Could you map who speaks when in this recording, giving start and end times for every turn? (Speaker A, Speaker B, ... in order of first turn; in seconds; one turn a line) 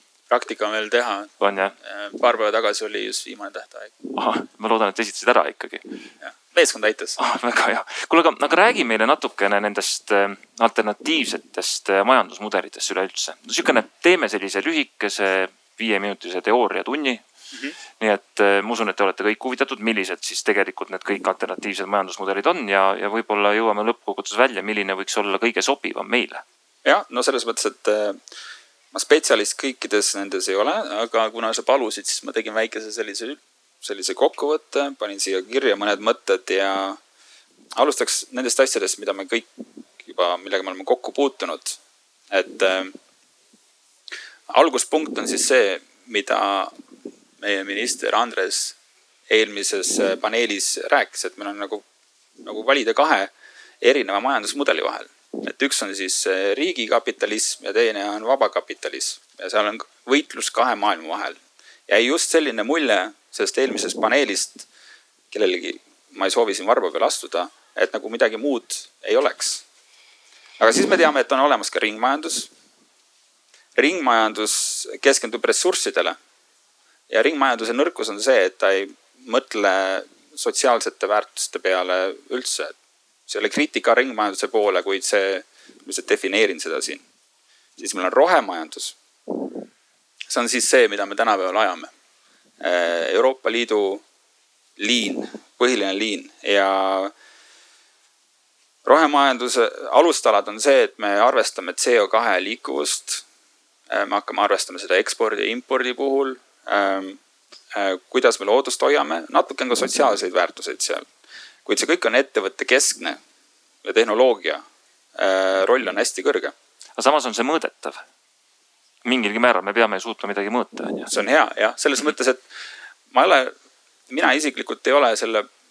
Speaker A: 0.3-1.3
Speaker B: 1.4-1.7
Speaker A: 1.8-3.9
Speaker B: 4.1-5.9
Speaker A: 6.2-7.2
Speaker B: 7.2-17.2
Speaker B: 18.0-26.4
Speaker A: 26.8-28.2
Speaker A: 28.9-37.0
Speaker A: 37.7-41.8
Speaker A: 42.3-42.9
Speaker A: 44.5-46.8
Speaker A: 47.4-48.8
Speaker A: 49.3-51.8
Speaker A: 52.4-64.7
Speaker A: 65.3-69.6
Speaker A: 70.6-72.5
Speaker A: 73.8-76.2
Speaker A: 77.1-82.7
Speaker A: 83.3-87.0
Speaker A: 87.8-89.0
Speaker A: 90.3-91.9
Speaker A: 92.6-94.0
Speaker A: 94.8-97.1
Speaker A: 98.8-103.2
Speaker A: 103.9-107.2
Speaker A: 107.7-111.1
Speaker A: 111.6-113.2
Speaker A: 113.8-116.5
Speaker B: 117.0-118.0
Speaker B: 119.0-121.1
Speaker A: 121.1-122.4
Speaker A: 123.1-123.5
Speaker A: 124.1-125.5